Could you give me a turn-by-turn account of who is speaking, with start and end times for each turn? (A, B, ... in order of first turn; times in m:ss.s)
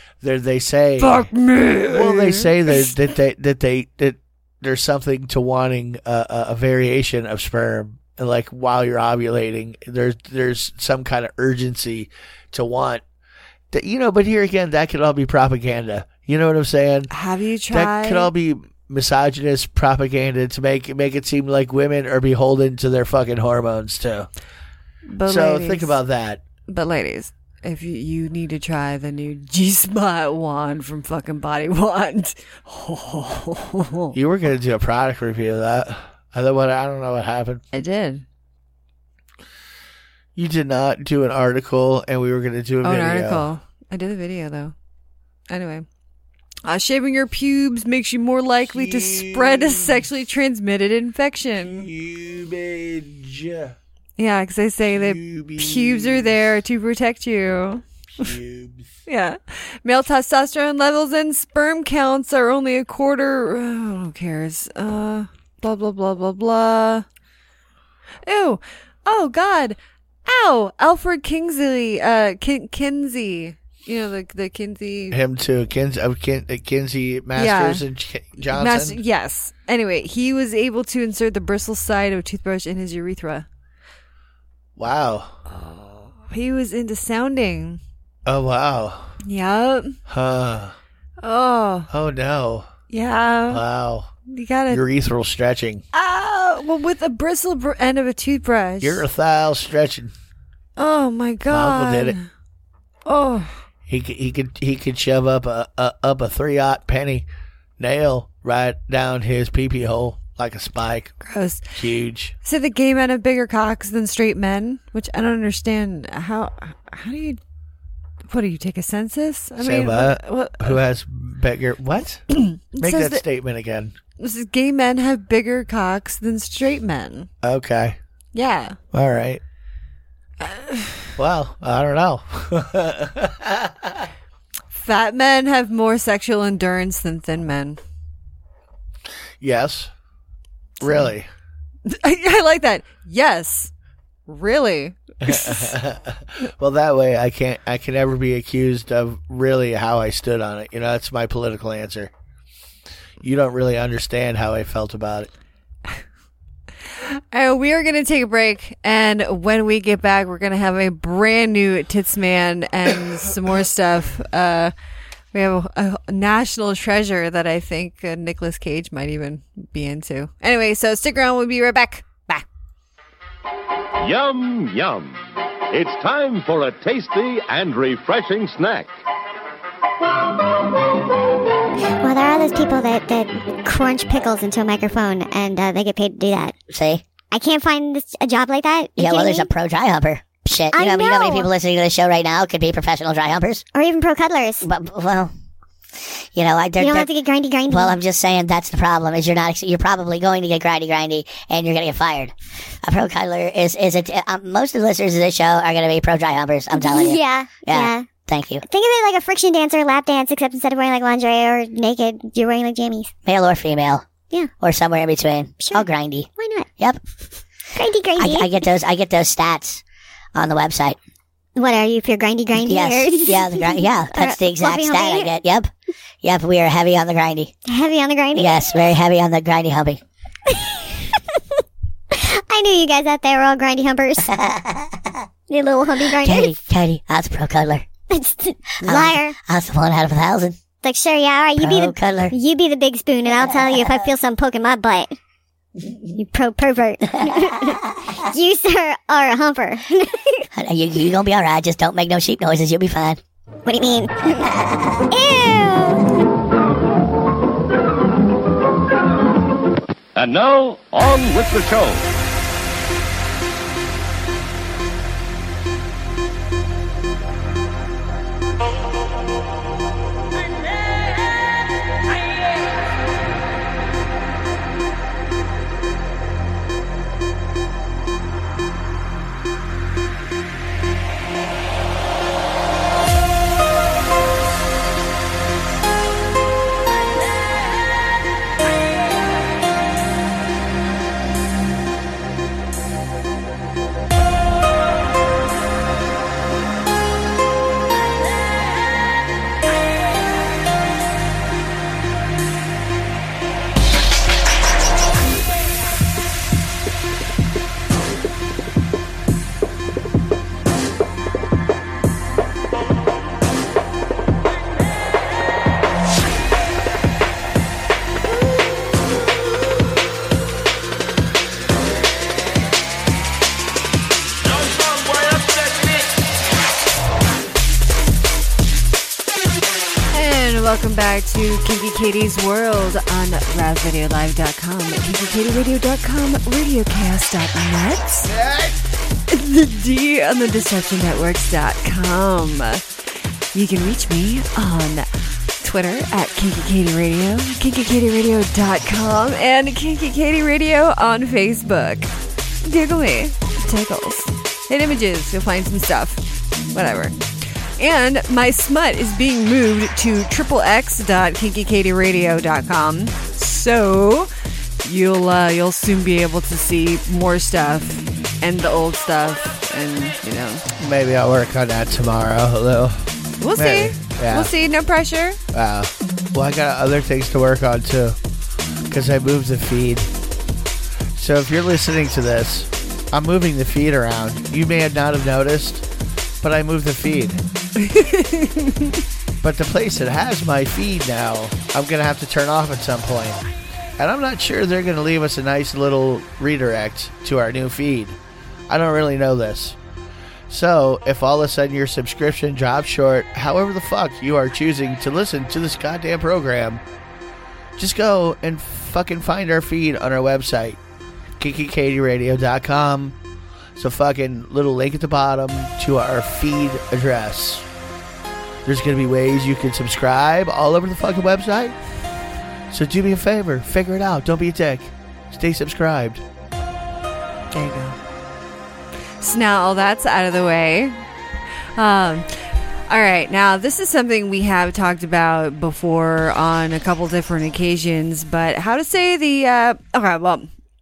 0:00.2-0:01.3 A
0:01.0-0:02.9 B
0:01.9-0:13.0 A
0:13.7-0:17.1 A
0:17.1-0:18.3 B
0:17.7-0:24.3 A
0:25.1-0:25.9 B
0:25.2-0:26.4 A
0:26.7-0:34.2 B
0:34.1-0:37.6 A
0:37.7-0:38.2 B
0:40.3-0:43.5 A
0:42.8-0:44.7 B
0:45.5-0:45.9 B
0:46.6-0:51.9 B
0:48.7-0:50.0 A
0:51.6-0:53.8 A
0:54.2-0:58.3 B
0:54.9-0:56.4 A
0:58.2-0:58.9 A
0:59.0-1:07.0 B
1:08.2-1:15.2 B
1:15.1-1:19.0 A
1:17.4-1:17.8 B
1:18.4-1:23.5 B
1:24.8-1:25.4 A
1:25.5-1:27.8 B
1:28.2-1:29.1 A
1:29.2-1:30.0 B
1:30.1-1:30.8 A
1:31.2-1:31.9 B
1:31.9-1:32.7 A
1:32.9-1:33.6 B
1:33.5-1:34.1 A
1:34.3-1:34.8 B
1:34.7-1:35.8 A
1:35.9-1:39.0 B
1:38.8-1:40.1 A
1:40.8-1:42.3 B
1:41.5-1:42.2 A
1:43.0-1:43.5 B
1:43.9-1:47.2 A
1:47.8-1:51.1 A
1:51.2-1:51.7 B
1:51.7-1:52.3 A
1:52.4-1:57.4 B
1:58.3-2:00.8 B
1:59.6-2:02.2 A
2:02.3-2:03.2 B
2:02.8-2:04.0 A
2:04.2-2:07.3 B
2:07.4-2:08.0 A
2:08.3-2:08.8 B
2:08.9-2:09.4 A
2:10.4-2:11.1 B
2:11.2-2:14.1 A
2:14.7-2:17.8 B
2:19.4-2:19.9 A
2:20.8-2:21.3 A
2:21.8-2:23.7 B
2:24.3-2:25.8 B
2:25.2-2:32.1 A
2:33.2-2:35.3 A
2:37.0-2:44.7 B
2:45.3-2:52.5 B
2:54.0-2:55.2 C
2:55.7-2:58.9 C
3:02.0-3:06.5 D
3:06.7-3:07.0 E
3:07.3-3:09.5 D
3:09.0-3:13.6 E
3:10.7-3:11.5 D
3:13.7-3:14.6 D
3:14.6-3:15.3 E
3:16.3-3:17.1 E
3:16.8-3:18.0 D
3:17.7-3:28.6 E
3:26.7-3:33.2 D
3:33.2-3:34.0 E
3:34.6-3:37.0 E
3:35.6-3:36.7 D
3:37.7-3:38.6 D
3:38.2-3:39.8 E
3:40.3-3:41.0 E
3:41.6-3:45.3 D
3:42.6-3:45.7 E
3:46.2-3:47.5 E
3:47.7-3:48.8 D
3:48.3-3:50.0 E
3:50.5-3:51.0 D
3:52.1-3:54.3 D
3:54.2-3:54.9 E
3:55.5-3:56.5 D
3:56.1-3:57.8 E
3:58.1-3:59.4 D
3:58.8-4:00.6 E
4:00.8-4:05.1 D
4:01.6-4:02.3 E
4:03.6-4:03.9 E
4:06.2-4:07.8 D
4:08.3-4:10.4 D
4:10.5-4:13.2 E
4:13.6-4:14.5 D
4:15.1-4:16.0 D
4:20.2-4:22.0 C
5:30.1-5:38.3 B
5:38.2-5:38.8 A
5:39.3-5:42.8 B
5:43.5-5:45.1 B
5:45.6-5:52.1 B
5:52.6-5:57.2 B
5:57.8-6:04.3 B
6:04.8-6:10.6 B
6:10.8-6:14.5 A
6:13.4-6:15.4 B
6:15.5-6:18.2 A
6:18.9-6:20.1 A
6:21.1-6:25.8 A
6:26.4-6:27.4 A
6:27.8-6:29.0 B
6:29.4-6:33.4 A
6:34.0-6:39.8 A
6:40.5-6:46.8 A
6:47.8-6:50.8 A
6:51.4-6:53.2 A
6:53.8-6:57.7 A
6:58.6-7:01.8 A
7:02.7-7:06.2 A
7:07.5-7:08.0 B
7:09.2-7:11.0 B
7:11.8-7:20.5 B